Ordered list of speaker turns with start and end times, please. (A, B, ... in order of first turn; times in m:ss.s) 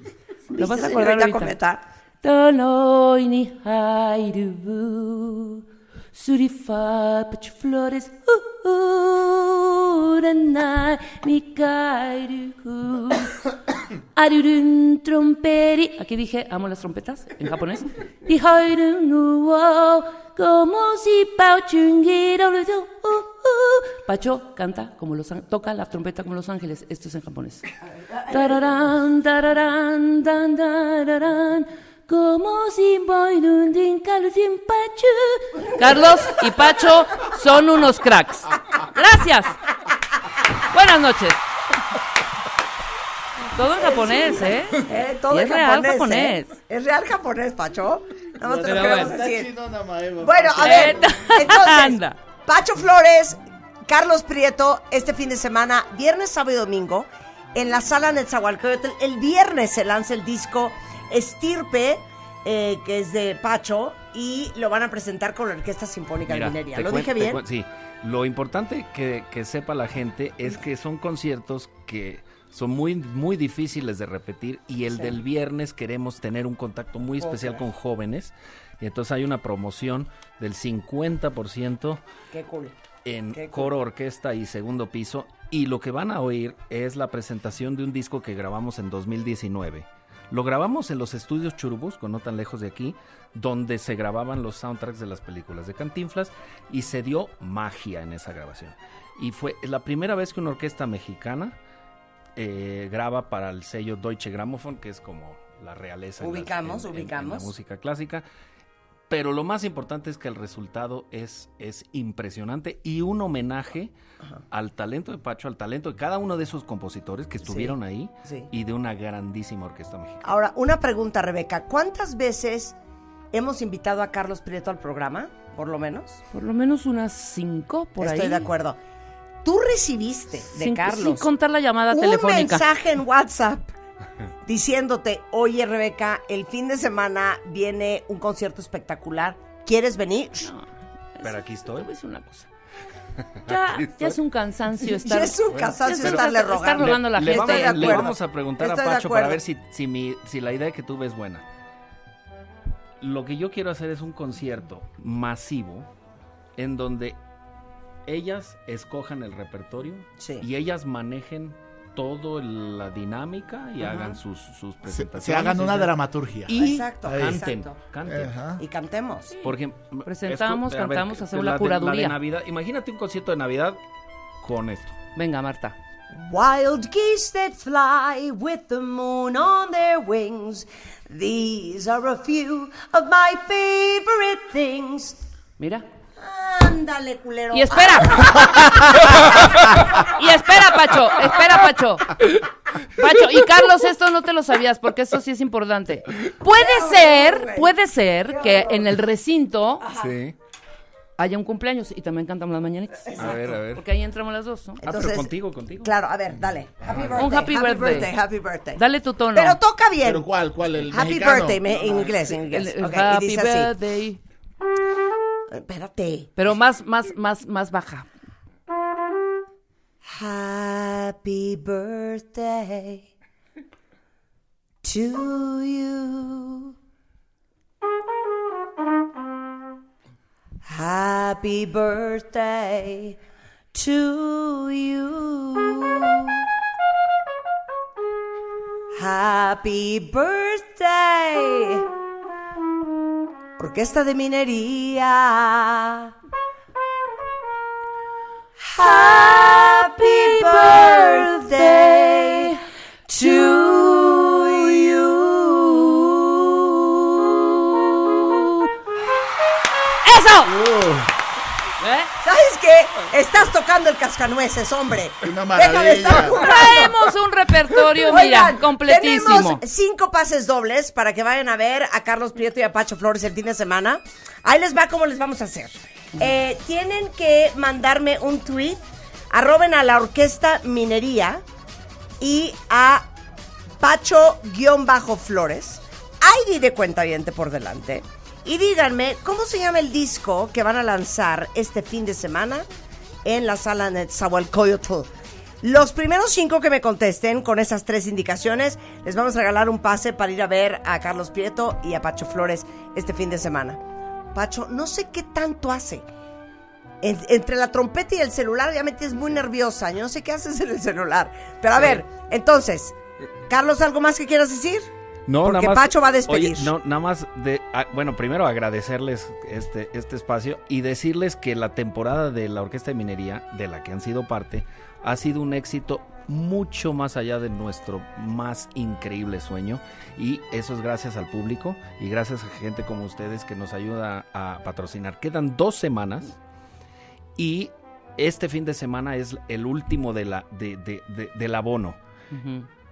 0:00.5-0:01.8 A
0:00.5-0:01.6 B
0:02.2-0:13.5 B
0:14.1-0:27.6 B
0:28.0-0:28.7 A
0:28.3-0:39.6 B
0:40.6-0:41.4 B
0:43.4-0:46.5 B
0:43.8-0:49.5 A
0:48.4-0:51.0 C
0:48.6-0:49.2 B
0:50.2-1:07.4 A
0:50.6-0:52.2 B
1:06.3-1:22.0 D
1:14.9-1:15.1 A
1:17.2-1:17.6 A
1:22.3-1:22.8 A
1:23.0-1:41.6 D
1:23.3-1:23.7 A
1:42.4-1:48.2 D
1:46.2-1:47.5 A
1:49.1-1:53.9 D
1:54.5-2:00.4 D
1:57.4-1:58.5 A
2:00.2-2:02.8 A
2:03.3-2:06.2 A
2:06.3-2:08.5 B
2:08.0-2:08.8 A
2:09.4-2:11.3 A
2:10.5-2:12.6 B
2:11.9-2:13.7 A
2:14.4-2:20.5 A
2:20.4-2:22.5 B
2:21.2-2:21.9 D
2:23.3-2:24.2 D
2:23.4-2:28.1 B
2:24.9-2:29.4 A
2:25.5-2:26.3 D
2:26.8-2:31.4 D
2:33.0-2:35.9 D
2:36.6-2:37.2 D
2:38.0-2:45.9 D
2:40.2-2:40.4 A
2:43.8-2:44.2 A
2:44.8-2:47.4 C
2:46.5-2:47.8 A
2:46.5-2:48.4 D
2:48.0-2:48.6 C
2:48.6-2:49.3 A
2:49.3-2:52.2 B
2:49.4-2:53.8 D
2:54.4-2:55.0 D
2:55.1-2:55.7 B
2:56.1-3:05.2 A
3:05.6-3:05.8 B
3:06.2-3:09.2 A
3:07.5-3:08.8 B
3:10.0-3:12.4 B
3:12.9-3:19.9 B
3:16.5-3:17.7 A
3:18.3-3:18.9 A
3:19.8-3:20.1 A
3:19.9-3:20.3 D
3:21.2-3:24.8 B
3:23.1-3:23.4 A
3:23.2-3:23.8 D
3:24.8-3:30.3 A
3:24.8-3:25.9 D
3:26.8-3:27.3 C
3:27.2-3:28.1 B
3:28.8-3:29.6 B
3:30.0-3:32.2 C
3:30.9-3:33.7 A
3:32.3-3:34.2 B
3:35.5-3:36.3 A
3:36.4-3:38.1 B
3:40.1-3:43.1 A
3:44.8-3:46.7 A
3:50.7-3:53.2 A
3:53.7-3:56.4 A
3:58.9-4:01.8 A
4:03.6-4:06.1 A
4:08.6-4:17.2 A
4:09.5-4:12.6 B
4:18.0-4:18.6 B
4:20.0-4:20.6 B
4:20.4-4:21.1 C
4:21.8-4:22.1 B
4:22.2-4:27.1 A
4:25.2-4:26.4 C
4:26.3-4:29.6 B
4:27.9-4:41.4 A
4:42.2-4:43.1 A
4:43.8-4:52.6 A
4:53.2-4:55.1 A
4:55.6-5:03.8 A
5:04.3-5:06.0 A
5:07.0-5:13.0 A
5:13.5-5:14.9 A
5:15.3-5:36.3 D
5:15.4-5:16.7 A
5:37.4-5:42.0 D
5:42.3-5:42.7 B